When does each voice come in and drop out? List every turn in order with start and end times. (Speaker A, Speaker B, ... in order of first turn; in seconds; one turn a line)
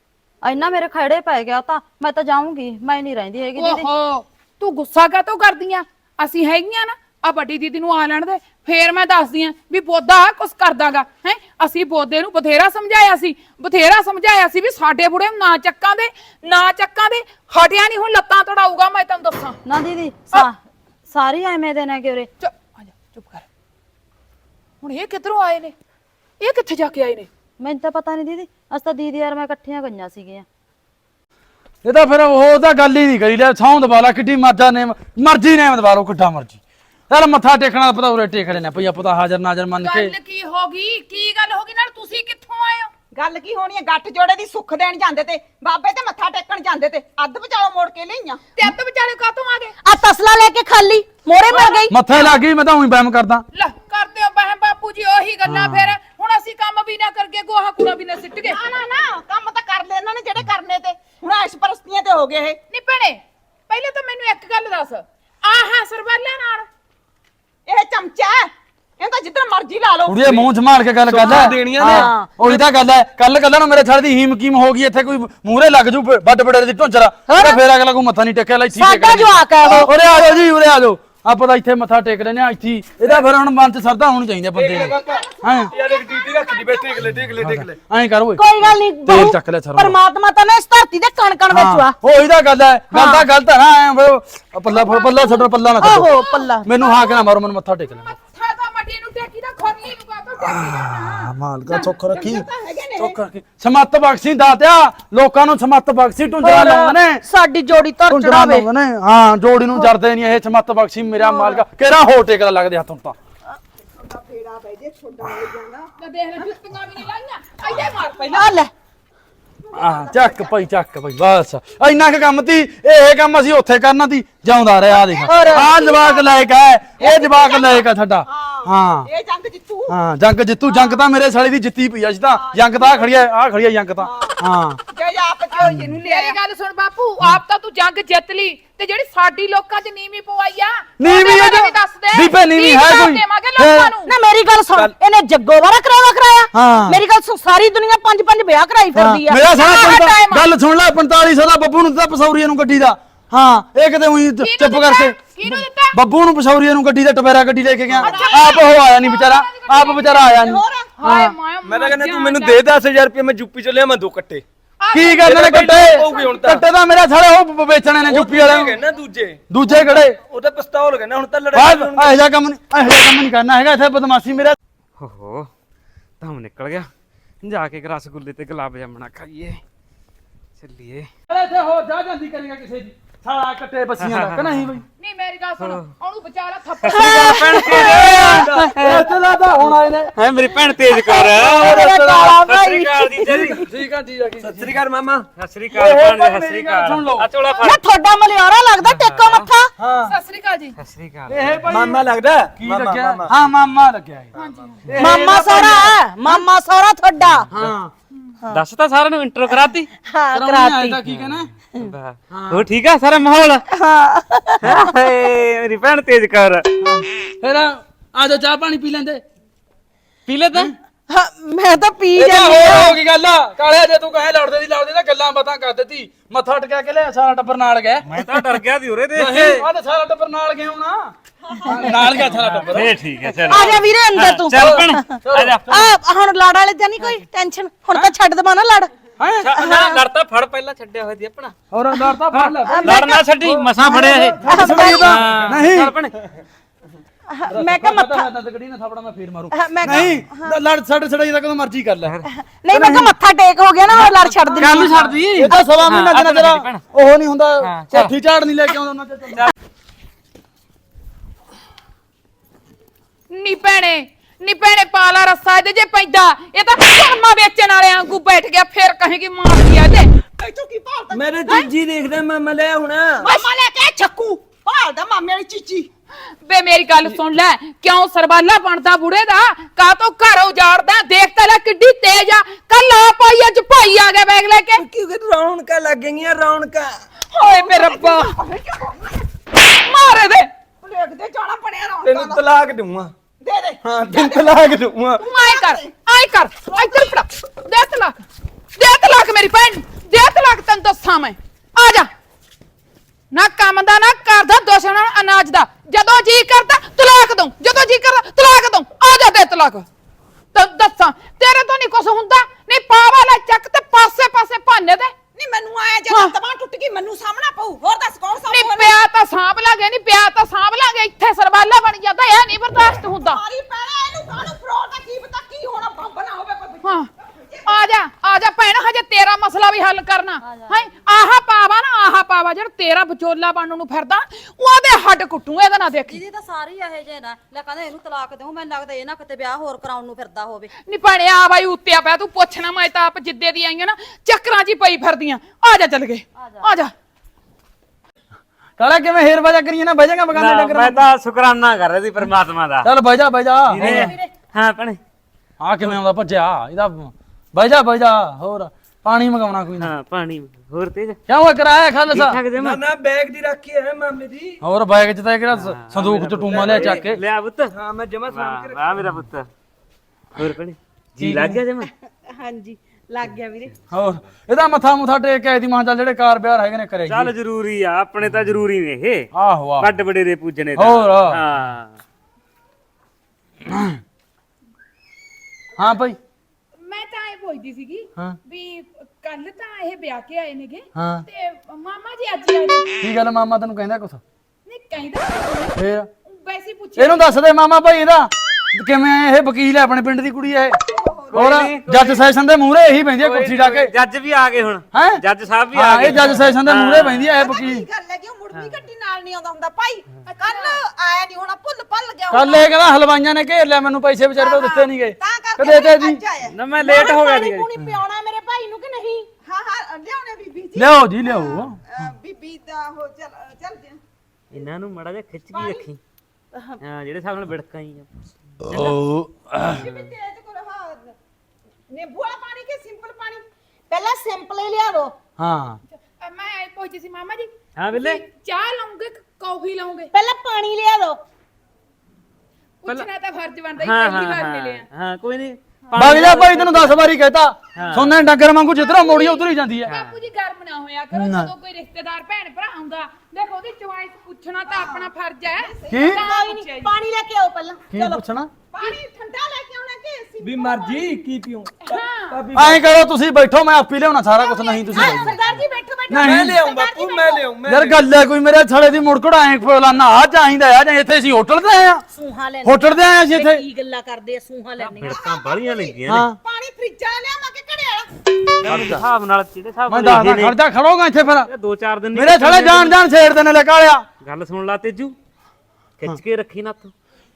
Speaker A: 0.4-3.9
Speaker B: 3.6-19.6
Speaker A: 19.7-22.3
Speaker B: 22.4-23.5
Speaker B: 24.8-25.7
Speaker B: 26.4-27.3
Speaker A: 27.6-30.4
Speaker C: 31.8-40.1
Speaker B: 39.8-42.9
Speaker D: 43.1-48.4
Speaker B: 48.6-49.7
Speaker E: 49.8-51.9
Speaker B: 51.5-52.4
Speaker C: 51.9-53.5
Speaker B: 53.5-58.6
Speaker C: 55.5-56.0
Speaker D: 58.4-62.6
Speaker B: 62.7-66.7
Speaker D: 67.7-70.5
Speaker C: 70.1-85.7
Speaker F: 71.1-72.6
Speaker E: 71.7-72.3
Speaker E: 77.3-77.6
Speaker E: 78.7-80.1
Speaker F: 84.5-87.8
Speaker C: 87.0-90.0
Speaker E: 88.4-92.0
Speaker C: 91.5-96.1
Speaker E: 92.9-93.3
Speaker B: 94.7-95.5
Speaker E: 95.8-96.7
Speaker B: 96.2-97.2
Speaker C: 96.7-98.1
Speaker B: 98.3-101.9
Speaker C: 100.4-102.5
Speaker D: 102.1-103.2
Speaker C: 103.0-107.2
Speaker E: 106.4-108.7
Speaker C: 108.1-113.2
Speaker E: 111.2-111.6
Speaker D: 113.9-116.5
Speaker B: 116.0-118.6
Speaker E: 118.3-118.7
Speaker D: 119.7-120.5
Speaker C: 119.7-129.1
Speaker E: 125.2-125.9
Speaker D: 125.3-126.2
Speaker D: 127.0-129.9
Speaker C: 129.9-134.8
Speaker D: 132.3-133.2
Speaker D: 134.0-134.4
Speaker D: 134.9-136.4
Speaker B: 135.6-144.1
Speaker C: 135.6-136.0
Speaker C: 141.0-143.9
Speaker E: 144.1-150.1
Speaker C: 146.5-147.0
Speaker C: 148.9-161.3
Speaker B: 149.5-150.5
Speaker B: 154.4-156.0
Speaker B: 158.0-160.4
Speaker D: 160.4-160.8
Speaker B: 161.0-162.6
Speaker F: 161.6-164.4
Speaker B: 164.8-166.4
Speaker C: 164.9-168.8
Speaker F: 165.2-166.6
Speaker F: 168.1-172.2
Speaker C: 169.5-170.2
Speaker C: 171.5-174.6
Speaker G: 175.0-175.5
Speaker G: 176.2-176.9
Speaker G: 177.4-179.6
Speaker G: 180.6-181.1
Speaker C: 181.3-184.8
Speaker G: 184.0-184.8
Speaker B: 185.0-187.3
Speaker G: 185.6-185.9
Speaker G: 186.8-189.1
Speaker E: 186.9-187.9
Speaker C: 187.0-190.1
Speaker F: 188.1-188.8
Speaker G: 190.2-193.6
Speaker E: 190.7-193.7
Speaker C: 191.4-192.4
Speaker C: 193.7-194.8
Speaker F: 194.4-195.2
Speaker G: 195.4-197.8
Speaker C: 195.7-197.3
Speaker E: 197.6-199.7
Speaker G: 198.8-199.5
Speaker C: 199.8-200.1
Speaker B: 200.1-200.8
Speaker G: 200.8-201.5
Speaker C: 201.3-206.4
Speaker F: 201.7-203.3
Speaker F: 204.3-205.1
Speaker B: 204.4-205.0
Speaker E: 205.0-207.5
Speaker C: 207.5-207.9
Speaker G: 208.5-209.9
Speaker E: 209.5-211.0
Speaker C: 210.3-211.5
Speaker G: 211.1-213.6
Speaker C: 212.3-212.7
Speaker E: 213.7-214.9
Speaker G: 214.6-216.7
Speaker C: 216.8-219.2
Speaker G: 220.3-220.7
Speaker E: 221.1-223.0
Speaker C: 222.2-228.1
Speaker G: 228.1-229.7
Speaker C: 229.2-233.0
Speaker G: 232.5-235.9
Speaker E: 233.3-238.9
Speaker C: 234.6-235.9
Speaker C: 239.2-240.0
Speaker G: 239.4-241.6
Speaker C: 241.7-245.9
Speaker G: 242.3-246.2
Speaker E: 242.7-243.2
Speaker E: 244.4-245.5
Speaker E: 247.3-248.3
Speaker C: 247.5-252.2
Speaker E: 249.5-250.6
Speaker E: 252.3-255.7
Speaker C: 252.7-253.2
Speaker G: 253.9-256.8
Speaker C: 254.6-259.5
Speaker G: 257.6-258.1
Speaker B: 263.3-270.1
Speaker D: 270.4-271.7
Speaker F: 271.1-273.3
Speaker D: 273.2-275.9
Speaker B: 276.4-284.8
Speaker F: 284.8-286.9
Speaker B: 287.3-288.3
Speaker D: 287.4-289.2
Speaker B: 289.7-290.5
Speaker D: 290.8-292.4
Speaker F: 292.0-293.1
Speaker D: 293.4-294.6
Speaker F: 293.8-295.2
Speaker B: 295.2-298.2
Speaker D: 295.2-295.9
Speaker D: 296.7-297.1
Speaker B: 298.8-302.1
Speaker B: 303.3-309.9
Speaker B: 310.5-315.1
Speaker D: 315.4-319.0
Speaker B: 316.1-316.3
Speaker B: 318.5-323.4
Speaker D: 323.2-327.8
Speaker B: 326.8-327.1
Speaker B: 327.7-336.2
Speaker A: 330.4-330.9
Speaker A: 336.1-340.7
Speaker B: 340.9-346.9
Speaker A: 346.4-346.7
Speaker C: 348.8-351.1
Speaker G: 350.3-352.9
Speaker C: 352.8-354.1
Speaker G: 353.7-355.0
Speaker E: 353.9-354.2
Speaker C: 355.6-359.9
Speaker G: 359.8-361.2
Speaker C: 361.3-362.4
Speaker G: 362.1-362.8
Speaker F: 362.6-364.6
Speaker C: 364.6-367.2
Speaker G: 365.5-367.7
Speaker F: 366.5-367.0
Speaker F: 367.7-368.9
Speaker G: 368.3-369.5
Speaker G: 370.4-371.9
Speaker C: 371.2-371.6
Speaker E: 371.9-373.8
Speaker G: 373.6-374.1
Speaker C: 373.9-377.3
Speaker G: 377.1-382.0
Speaker C: 379.3-380.0
Speaker C: 380.8-381.4
Speaker C: 383.7-384.0
Speaker C: 385.8-386.2
Speaker B: 386.8-393.0
Speaker C: 391.0-391.2
Speaker C: 393.0-394.2
Speaker B: 394.7-397.2
Speaker C: 395.7-396.1
Speaker C: 397.0-400.8
Speaker D: 400.9-401.5
Speaker G: 401.3-402.2
Speaker C: 401.3-403.9
Speaker G: 403.2-407.4
Speaker C: 404.9-407.9
Speaker D: 407.3-412.7
Speaker G: 408.5-408.8
Speaker B: 410.3-410.8
Speaker C: 412.3-416.2
Speaker D: 414.4-416.6
Speaker G: 416.4-417.7
Speaker E: 416.8-419.3
Speaker D: 419.4-424.0
Speaker C: 420.8-421.8
Speaker G: 424.5-426.0
Speaker D: 425.6-425.8
Speaker G: 426.8-428.1
Speaker G: 428.6-429.0
Speaker C: 428.7-429.8
Speaker D: 429.8-431.1
Speaker G: 429.8-430.1
Speaker D: 431.9-433.4
Speaker E: 433.9-435.1
Speaker C: 435.4-435.8
Speaker B: 436.2-440.1
Speaker G: 437.8-438.2
Speaker E: 440.1-441.2
Speaker B: 442.8-444.9
Speaker G: 443.8-447.0
Speaker C: 446.0-449.9
Speaker G: 447.8-448.2
Speaker B: 448.7-456.9
Speaker G: 449.9-450.2
Speaker C: 451.1-451.5
Speaker D: 454.7-456.2
Speaker C: 455.9-456.2
Speaker E: 456.2-458.2
Speaker C: 457.9-458.5
Speaker D: 458.7-461.1
Speaker F: 460.4-462.9
Speaker B: 461.9-462.4
Speaker C: 462.5-465.4
Speaker B: 464.5-465.2
Speaker E: 464.9-467.4
Speaker C: 466.1-466.6
Speaker F: 466.2-468.1
Speaker C: 467.7-472.0
Speaker E: 472.1-475.5
Speaker C: 472.6-473.6
Speaker G: 474.8-476.3
Speaker D: 475.5-475.9
Speaker C: 476.1-476.4
Speaker D: 476.4-478.1
Speaker G: 478.6-480.6
Speaker C: 478.7-479.0
Speaker C: 479.9-481.5
Speaker G: 481.5-483.0
Speaker C: 482.1-484.1
Speaker G: 484.2-485.2
Speaker G: 486.0-486.9